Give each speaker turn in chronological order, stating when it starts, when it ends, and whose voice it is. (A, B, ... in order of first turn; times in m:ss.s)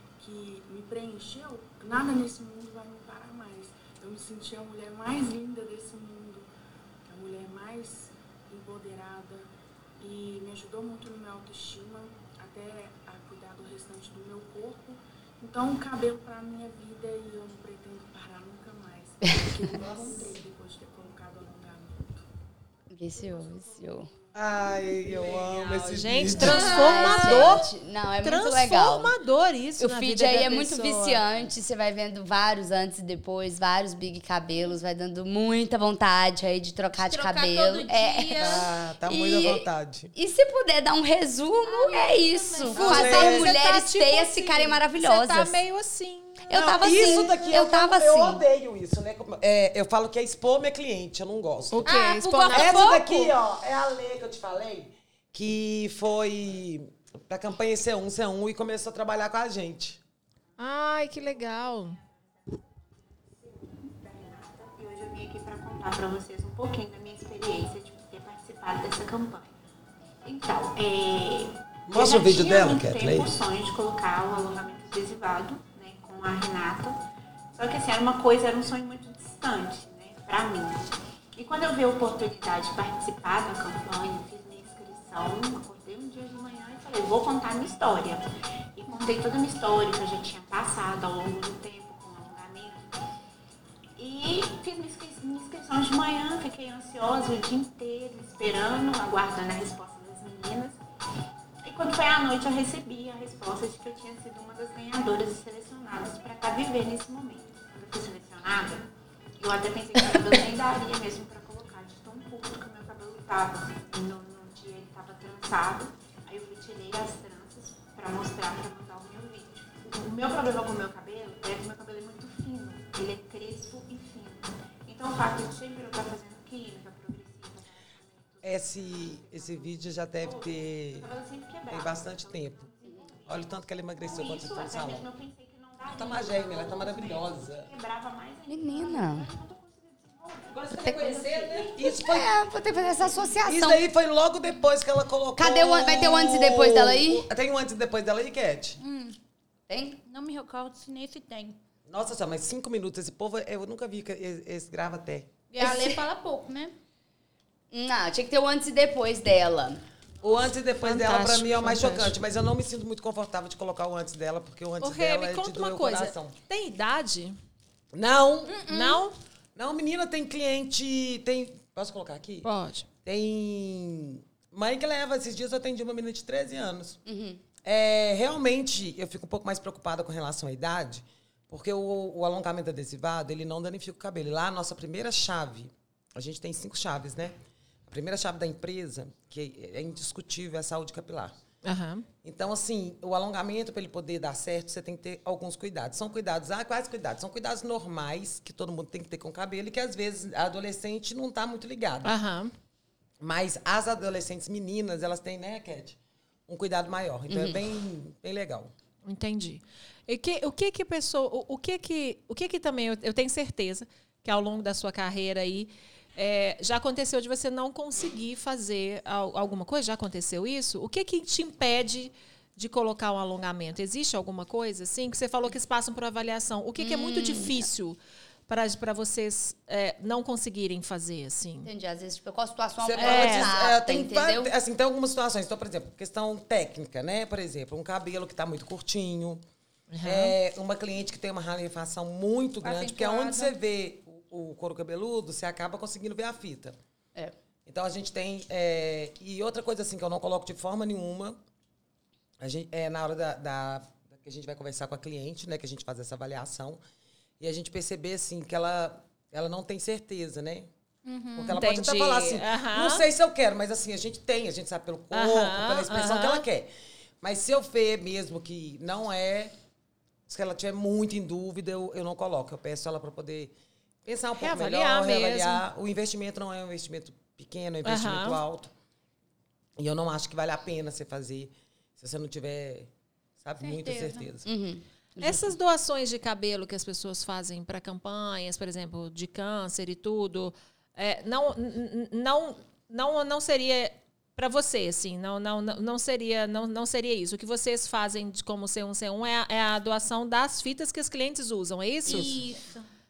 0:00.2-0:06.5 A
0:07.1-0:22.2 A
0:19.9-0:20.3 B
0:22.9-0:24.1 C
0:23.1-0:25.5 A
0:24.3-0:27.6 B
0:25.3-0:27.7 D
0:26.4-0:29.1 C
0:26.4-0:27.5 E
0:28.2-0:31.2 D
0:29.8-0:45.6 C
0:37.0-0:38.6 E
0:38.4-0:40.1 B
0:41.6-0:43.4 E
0:42.7-0:43.5 B
0:42.7-0:47.1 D
0:46.5-0:48.4 C
0:46.8-0:51.8 B
0:51.7-0:53.0 D
0:51.8-0:53.1 E
0:52.5-1:00.0 B
1:00.6-1:02.0 D
1:03.5-1:09.6 F
1:10.2-1:17.0 F
1:11.9-1:13.4 B
1:17.5-1:28.2 F
1:28.8-1:32.9 F
1:34.0-1:40.8 F
1:41.6-2:21.8 F
2:08.4-2:11.1 B
2:11.7-2:12.7 B
2:13.2-2:15.1 B
2:15.9-2:17.7 B
2:18.5-2:19.3 C
2:20.5-2:21.7 D
2:20.8-2:23.8 C
2:21.8-2:22.3 B
2:23.4-2:28.8 B
2:25.4-2:27.2 C
2:28.8-2:29.2 E
2:29.7-2:30.0 C
2:30.0-2:31.6 E
2:31.9-2:35.3 B
2:35.5-2:36.7 E
2:35.6-2:36.0 C
2:37.7-2:39.8 C
2:40.2-2:46.3 B
2:40.8-2:42.2 D
2:44.8-2:47.4 D
2:47.9-2:48.6 B
2:48.5-2:49.0 E
2:48.7-2:49.1 D
2:49.6-2:52.5 B
2:52.4-2:52.9 D
2:53.0-2:57.0 B
2:57.0-2:57.4 C
2:57.6-3:11.3 B
3:11.6-3:12.1 D
3:12.2-3:22.1 B
3:22.0-3:22.5 D
3:23.2-3:28.7 B
3:27.3-3:27.6 C
3:29.0-3:51.7 D
3:46.8-3:47.6 C
3:51.6-3:54.5 C
3:52.8-3:59.4 B
3:53.0-3:53.6 D
3:59.9-4:00.3 D
4:00.0-4:06.8 B
4:02.6-4:03.5 E
4:07.6-4:11.4 B
4:12.4-4:16.8 B
4:17.4-4:20.7 B
4:21.0-4:21.5 E
4:21.3-4:26.7 B
4:21.4-4:23.0 D
4:25.1-4:26.4 D
4:27.2-4:29.5 B
4:30.3-4:33.5 B
4:34.0-4:38.7 B
4:34.4-4:35.6 D
4:37.8-4:38.4 D
4:39.8-4:44.5 B
4:43.6-4:44.2 E
4:44.4-4:45.5 C
4:45.2-5:02.4 D
5:02.0-5:02.8 E